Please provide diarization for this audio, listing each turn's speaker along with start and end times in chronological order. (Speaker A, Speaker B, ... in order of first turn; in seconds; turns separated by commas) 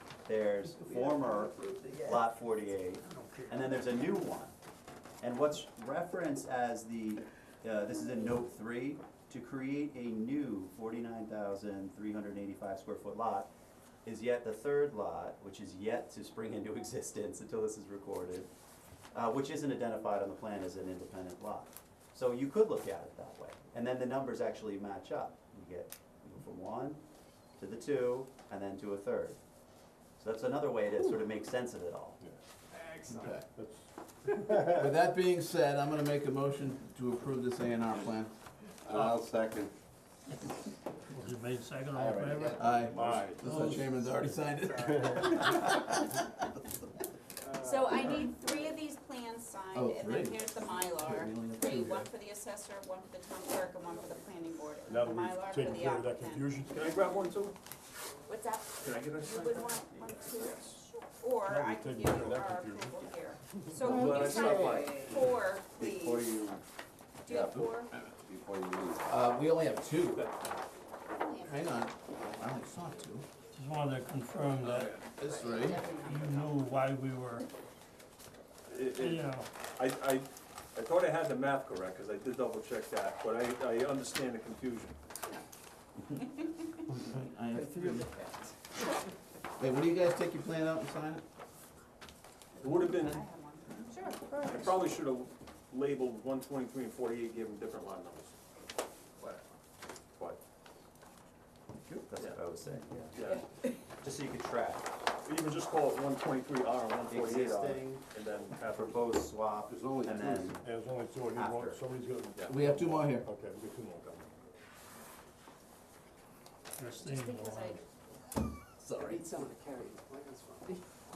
Speaker A: 0.2-4.5, Speaker B: 0.8-2.2, Speaker A: 5.2-13.5, Speaker A: 14.0-18.5, Speaker A: 19.1-27.0, Speaker A: 27.6-29.4, Speaker A: 30.2-32.2, Speaker C: 32.7-33.3, Speaker B: 33.1-33.5, Speaker D: 33.2-34.7, Speaker B: 34.5-38.3, Speaker E: 38.8-39.7, Speaker F: 41.1-43.9, Speaker E: 42.0-43.1, Speaker B: 42.5-46.3, Speaker D: 42.8-44.0, Speaker C: 44.6-45.4, Speaker D: 45.0-45.2, Speaker C: 47.4-48.7, Speaker G: 47.6-56.6, Speaker B: 49.7-52.1, Speaker D: 54.9-57.3, Speaker H: 56.7-57.5, Speaker G: 58.2-66.4, Speaker H: 58.8-60.8, Speaker D: 61.4-63.9, Speaker H: 63.8-65.2, Speaker D: 65.0-65.3, Speaker E: 65.8-66.6, Speaker G: 67.2-67.9, Speaker E: 67.3-69.2, Speaker B: 69.0-70.3, Speaker H: 70.1-70.5, Speaker G: 71.2-71.6, Speaker B: 71.4-73.3, Speaker F: 73.5-75.0, Speaker H: 74.6-75.0, Speaker G: 75.0-76.7, Speaker B: 75.2-75.9, Speaker F: 76.0-77.5, Speaker H: 78.7-85.0, Speaker F: 78.9-79.5, Speaker B: 86.9-88.0, Speaker A: 87.7-88.0, Speaker B: 89.6-91.2, Speaker H: 92.6-93.2, Speaker G: 92.6-94.9, Speaker H: 94.4-98.4, Speaker A: 101.8-103.2, Speaker H: 103.1-103.4, Speaker G: 103.2-103.8, Speaker A: 104.0-104.9, Speaker H: 105.2-109.1, Speaker A: 107.1-108.0, Speaker A: 108.7-110.7, Speaker E: 109.7-110.6, Speaker D: 110.5-114.5, Speaker A: 111.3-111.8, Speaker B: 112.5-113.3, Speaker F: 116.8-117.8, Speaker G: 117.0-117.8, Speaker B: 118.8-119.2, Speaker C: 118.9-120.8